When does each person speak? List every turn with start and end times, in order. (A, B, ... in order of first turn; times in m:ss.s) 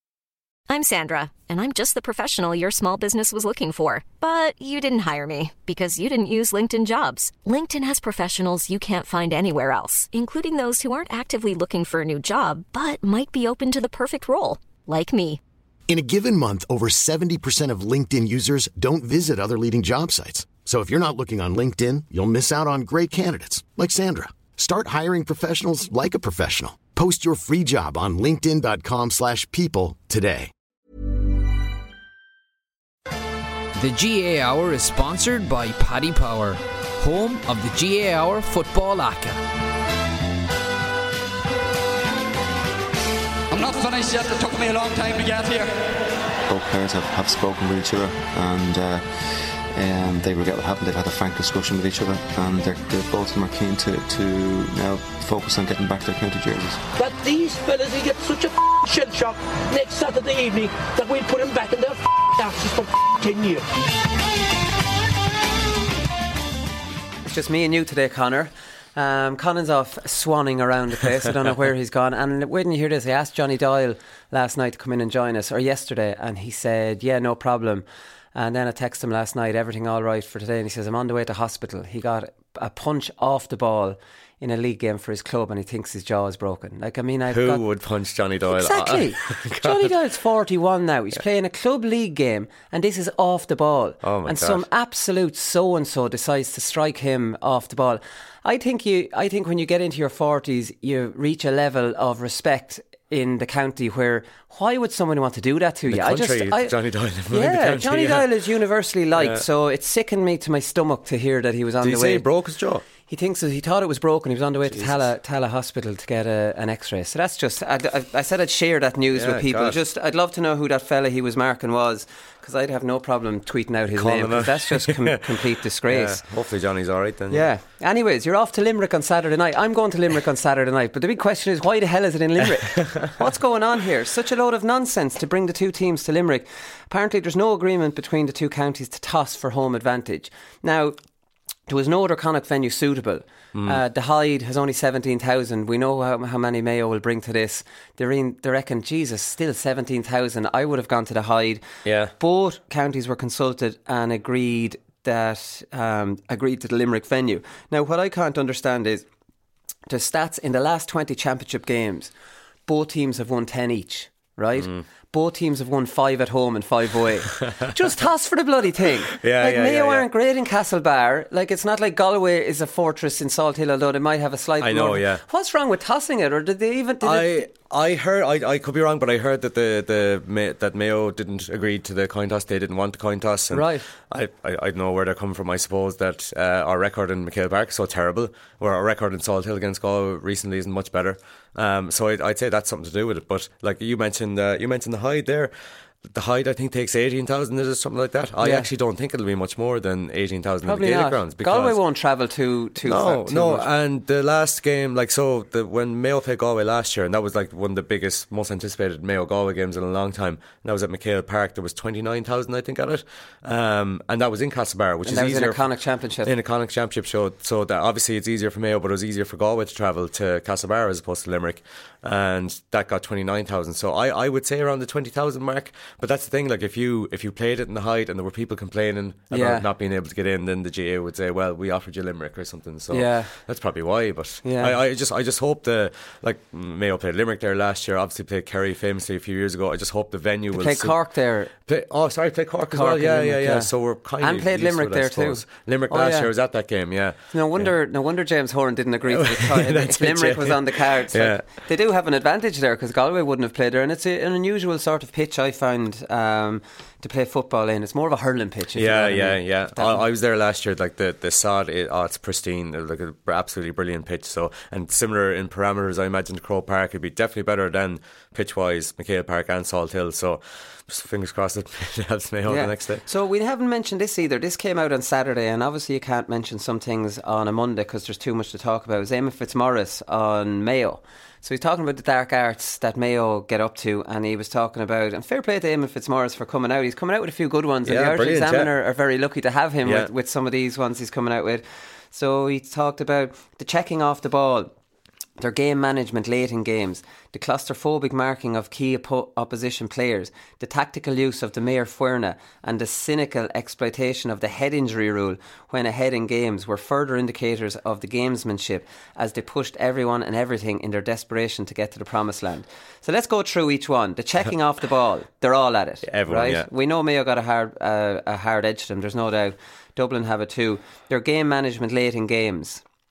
0:00.7-0:15.4 A
0:15.9-0:30.5 B
0:33.8-0:39.4 C
0:43.5-0:45.9 D
0:46.5-0:56.8 E
0:57.0-1:03.6 F
1:07.2-1:27.6 G
1:27.3-1:29.9 H
1:28.5-1:46.7 G
1:34.0-1:34.6 H
1:45.9-1:48.3 H
1:47.3-1:52.2 G
1:49.2-1:49.4 H
1:51.8-1:52.8 H
1:53.1-2:06.2 G
1:54.7-1:55.0 H
1:59.1-1:59.8 H
2:03.9-2:05.2 H
2:05.9-2:07.5 H
2:07.3-2:21.0 G
2:12.8-2:13.1 H
2:21.7-2:31.6 G
2:23.5-2:23.8 H
2:31.8-2:32.1 H
2:32.2-2:39.0 G
2:39.9-2:42.1 G
2:42.7-2:57.5 G
2:49.2-2:50.0 H
2:54.6-2:55.2 H
2:57.0-3:15.5 H
3:03.5-3:03.8 G
3:16.0-3:21.8 H
3:18.4-3:18.7 G
3:20.6-3:23.7 G
3:22.8-3:35.6 H
3:35.0-3:36.3 G
3:36.2-4:00.9 H
3:49.3-3:49.6 G
3:52.9-3:53.3 G
3:54.4-3:54.8 G
4:00.5-4:01.5 G
4:01.6-4:07.7 H
4:02.7-4:06.3 G
4:07.3-4:20.0 G
4:09.1-4:11.4 H
4:18.7-4:33.0 H
4:32.4-4:54.7 G
4:47.8-4:48.7 H
4:49.8-4:50.1 H
4:55.4-5:22.8 G
5:16.0-5:16.7 H